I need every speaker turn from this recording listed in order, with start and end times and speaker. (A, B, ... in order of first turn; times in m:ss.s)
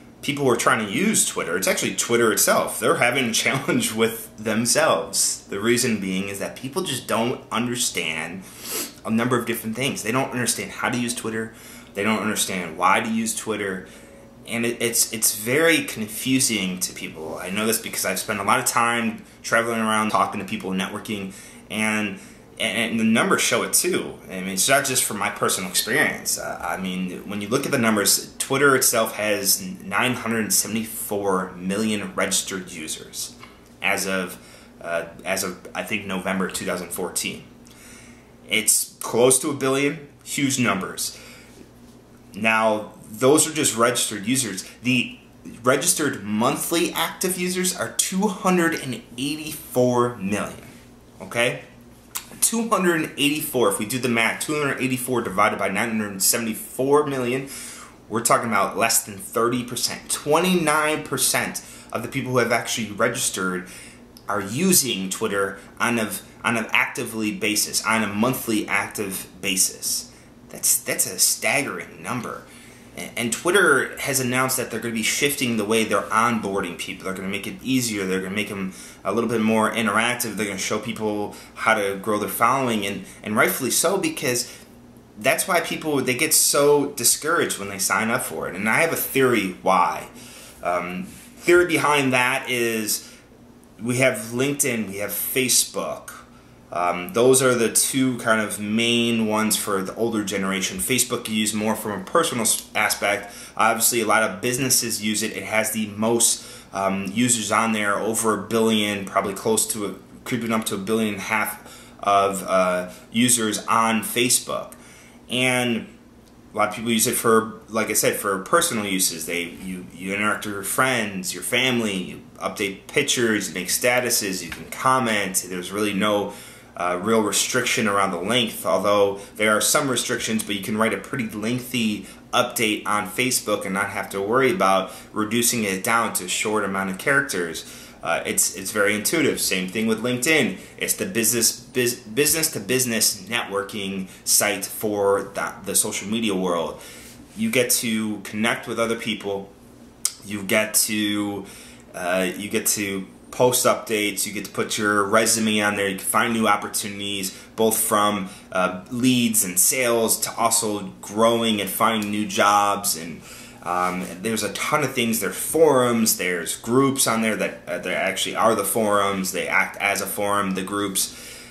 0:00.2-0:13.9 A
0:14.5-0:37.5 A
0:38.5-0:41.2 A
0:42.3-0:51.6 A
0:52.4-0:57.5 A
0:58.1-1:03.7 A
1:04.3-1:24.5 A
1:25.2-1:30.1 A
1:30.6-1:33.1 A
1:33.8-1:54.8 A
1:55.3-1:55.9 A
1:56.5-2:26.8 A
2:27.4-2:29.5 A
2:30.2-2:51.1 A